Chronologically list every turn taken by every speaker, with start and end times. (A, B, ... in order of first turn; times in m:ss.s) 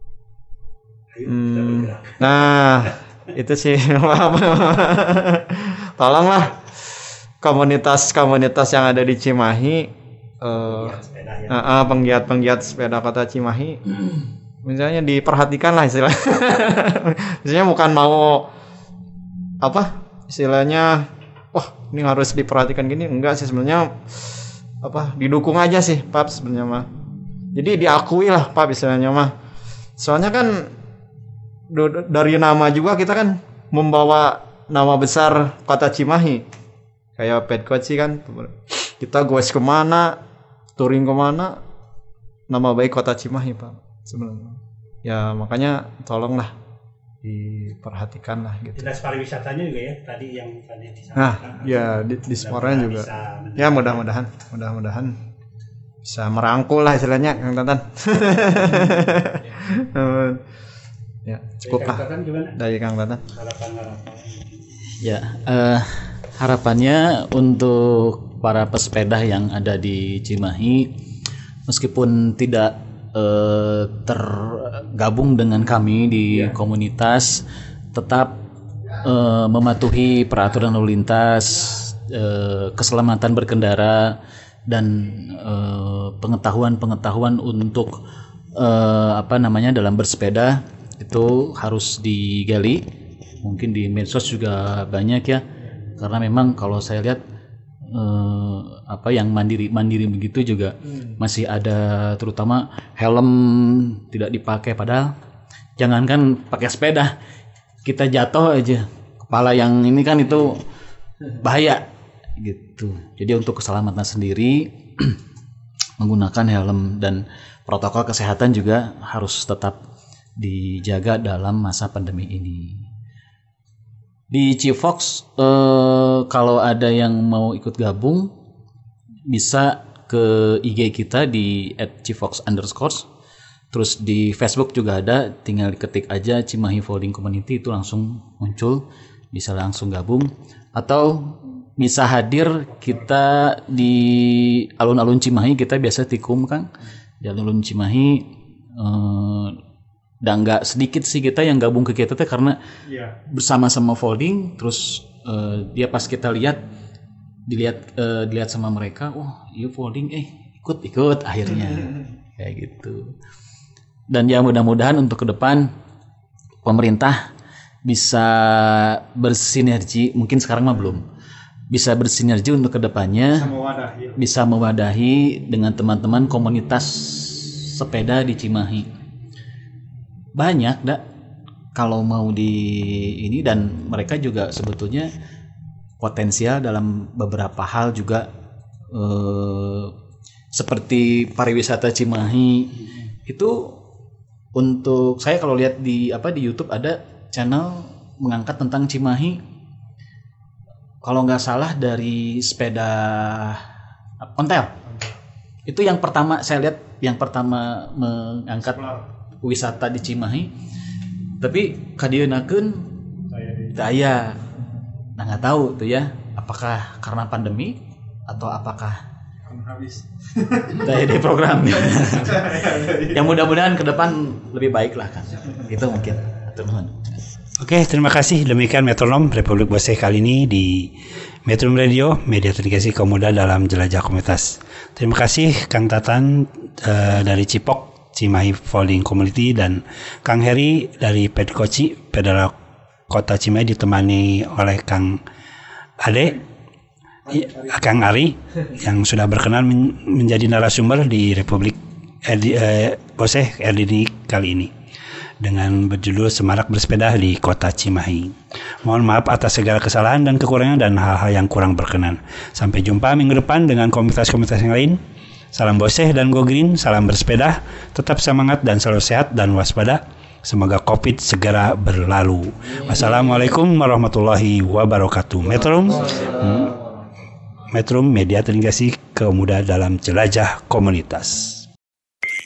0:01.1-0:02.9 A
0:01.3-0:06.6 B
0:07.4-0:11.0 B
0:10.6-0:11.7 A
0:11.5-0:13.9 B
0:14.6-0:18.5 B
0:19.6-0:24.0 B
0:24.8-0:26.9 B
0:27.6-0:29.3 B
0:30.0-0:30.7 B
0:31.7-0:36.5 B
0:37.2-0:40.2 B
0:40.8-0:41.6 B
0:42.5-0:46.5 B
0:47.2-0:48.9 B
0:48.8-0:54.0 A
0:51.2-0:55.2 B
0:56.0-1:00.4 B
1:01.2-1:03.2 B
1:01.6-1:02.6 A
1:03.3-1:04.6 A
1:05.0-1:11.0 C
1:11.7-1:18.4 C
1:19.0-1:28.0 C
1:28.6-1:32.9 C
1:33.4-1:35.5 C
1:36.0-1:37.2 C
1:37.9-1:45.1 C
1:45.8-1:47.2 C
1:47.8-1:50.6 C
1:51.3-1:55.2 C
1:56.0-1:59.8 C
2:00.4-2:02.9 C
2:04.3-2:08.3 C
2:09.3-2:13.1 C
2:13.7-2:26.7 C
2:27.2-2:29.6 C
2:30.2-2:32.6 C
2:32.9-2:33.2 B
2:33.3-2:36.6 C
2:37.5-2:43.1 C
2:44.1-2:45.7 C
2:46.6-2:47.3 C
2:47.8-2:51.0 C
2:51.7-2:53.5 C
2:53.4-2:54.2 B
2:54.2-2:58.9 C
3:00.4-3:01.0 C
3:01.7-3:05.1 C
3:06.0-3:08.3 C
3:08.9-3:09.9 C
3:10.5-3:13.8 C
3:14.6-3:19.4 C
3:21.0-3:23.6 C
3:24.2-3:24.8 C
3:24.9-3:25.1 B
3:25.7-3:28.8 C
3:28.7-3:29.0 B
3:29.4-3:30.5 C
3:31.4-3:33.0 C
3:33.3-3:33.8 B
3:33.7-3:34.4 C
3:35.2-3:39.0 C
3:39.5-3:40.9 B
3:40.7-3:47.0 C
3:42.0-3:43.3 B
3:47.6-3:50.9 A
3:51.4-4:02.5 A
4:03.1-4:05.2 A
4:06.0-4:06.4 A
4:07.3-4:07.7 B
4:07.3-4:14.7 A
4:15.4-4:25.0 A
4:25.5-4:36.7 A
4:35.7-4:37.1 B
4:37.7-4:41.7 A